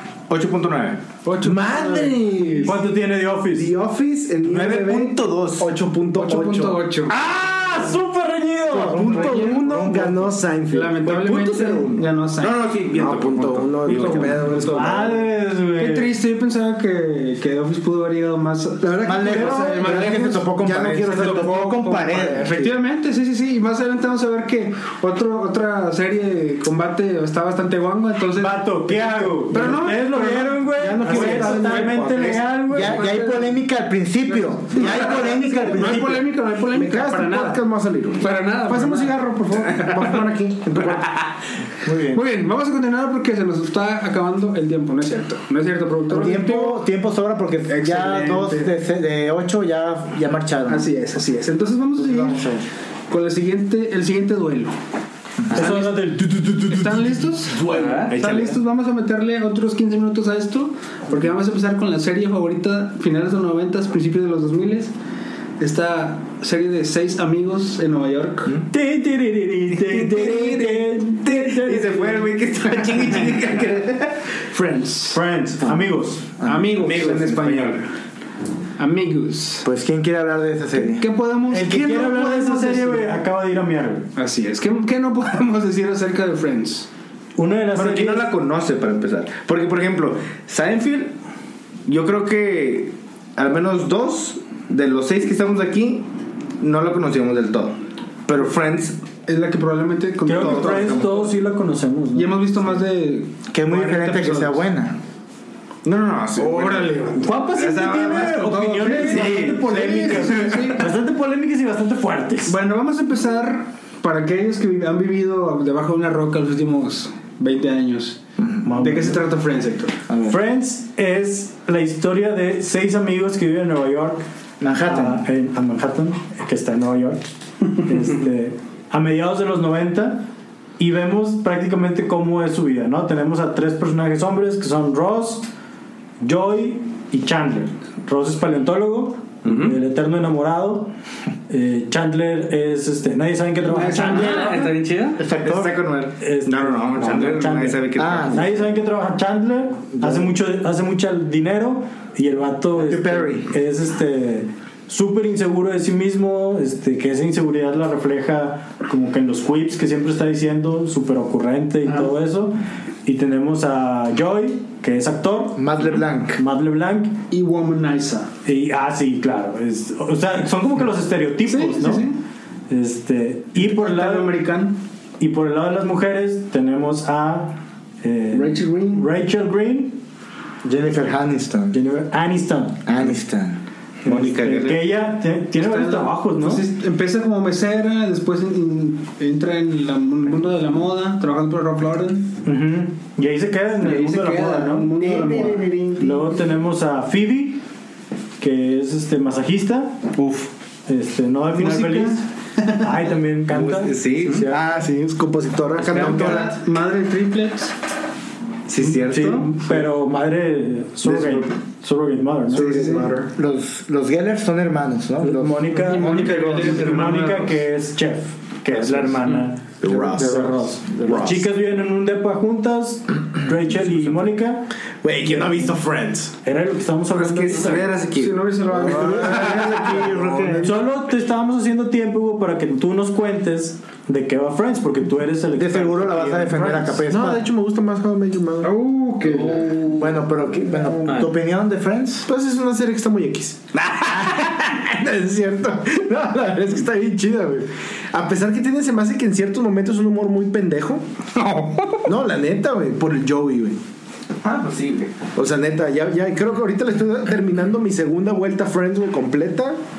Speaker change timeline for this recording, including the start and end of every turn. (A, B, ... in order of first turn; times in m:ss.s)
0:00.3-0:01.0 A
0:01.2-0:02.7 B
0:01.4-0:02.8 C
0:02.6-0:03.7 D
0:03.5-0:06.8 C
0:04.4-0:05.7 A
0:06.2-0:07.2 B
0:07.1-0:09.2 D
0:08.7-0:10.3 E
0:08.9-0:12.0 C
0:09.1-0:09.6 B
0:10.7-0:12.6 B
0:11.1-0:14.8 A
0:12.9-0:15.2 C
0:13.9-0:14.4 B
0:14.7-0:16.1 D
0:15.8-0:20.5 B
0:18.8-0:22.7 C
0:19.0-0:22.5 E
0:21.2-0:32.0 B
0:28.4-0:33.1 D
0:30.8-0:32.5 C
0:32.7-0:36.2 E
0:32.8-0:33.6 B
0:34.3-0:37.6 B
0:34.7-0:41.2 C
0:38.2-0:40.1 B
0:41.8-0:42.2 E
0:42.1-0:46.8 B
0:46.1-0:50.9 E
0:47.7-0:48.7 B
0:50.7-0:52.4 B
0:52.0-0:52.7 E
0:53.1-0:54.8 B
0:55.5-0:56.1 B
0:55.5-0:57.2 D
0:56.6-1:04.9 B
0:57.5-0:57.9 C
0:57.7-0:58.1 F
0:57.8-0:58.6 A
1:05.6-1:08.6 B
1:08.7-1:12.3 D
1:09.8-1:14.2 A
1:14.5-1:15.2 B
1:15.1-1:17.7 D
1:16.4-1:17.9 B
1:18.8-1:19.7 B
1:19.6-1:21.0 E
1:20.8-1:23.2 B
1:21.5-1:24.1 D
1:24.2-1:26.9 B
1:27.4-1:28.3 D
1:27.7-1:31.1 A
1:31.9-1:36.1 A
1:36.6-1:39.0 A
1:39.3-1:41.2 B
1:40.3-1:42.7 D
1:40.3-1:41.2 A
1:42.1-1:44.7 B
1:43.5-1:45.0 E
1:45.8-1:50.3 A
1:46.4-1:47.3 B
1:47.2-1:52.6 D
1:48.9-1:50.9 B
1:52.5-1:59.9 B
1:58.6-1:59.2 D
2:00.1-2:00.4 E
2:00.3-2:04.2 D
2:04.6-2:05.2 E
2:04.8-2:10.3 D
2:10.8-2:15.5 D
2:16.2-2:20.9 D
2:19.4-2:19.8 F
2:21.5-2:24.6 D
2:23.6-2:24.7 B
2:23.9-2:25.2 F
2:25.2-2:25.9 E
2:25.4-2:28.5 A
2:26.2-2:45.7 D
2:28.0-2:28.6 E
2:30.0-2:30.3 E
2:32.8-2:33.5 E
2:45.6-2:46.4 E
2:46.4-2:47.2 D
2:47.3-2:48.3 B
2:48.4-2:52.1 D
2:51.5-2:52.2 B
2:52.7-2:54.4 D
2:53.6-2:54.8 B
2:55.2-3:00.0 D
2:58.3-2:59.1 B
3:00.6-3:01.8 E
3:01.7-3:02.9 D
3:02.9-3:03.6 E
3:04.0-3:04.8 A
3:04.0-3:06.6 D
3:05.6-3:12.3 B
3:12.4-3:17.6 D
3:13.8-3:16.1 B
3:15.0-3:15.9 C
3:18.4-3:20.1 D
3:20.2-3:20.4 A
3:20.9-3:24.1 D
3:21.6-3:22.2 B
3:23.5-3:24.5 A
3:24.4-3:26.6 C
3:25.8-3:27.8 B
3:28.7-3:29.6 A
3:28.8-3:32.7 D
3:31.1-3:31.5 C
3:32.5-3:33.3 C
3:32.6-3:33.1 B
3:33.3-3:35.8 E
3:35.2-3:44.7 D
3:35.7-3:37.6 B
3:39.8-3:41.4 C
3:39.9-3:41.3 E
3:39.9-3:40.4 A
3:45.0-3:46.3 C
3:45.3-3:45.7 D
3:46.4-3:47.9 D
3:47.1-3:49.7 A
3:48.0-3:50.2 B
3:48.7-3:50.6 C
3:48.9-3:50.8 E
3:50.6-3:57.0 D
3:55.6-3:57.5 E
3:57.1-3:58.7 C
3:58.6-3:59.8 B
3:59.3-4:00.2 F
3:59.9-4:02.3 E
4:01.0-4:01.4 F
4:02.3-4:11.0 C
4:03.8-4:04.6 A
4:11.5-4:12.0 A
4:12.0-4:13.8 C
4:14.4-4:15.2 A
4:15.4-4:19.8 C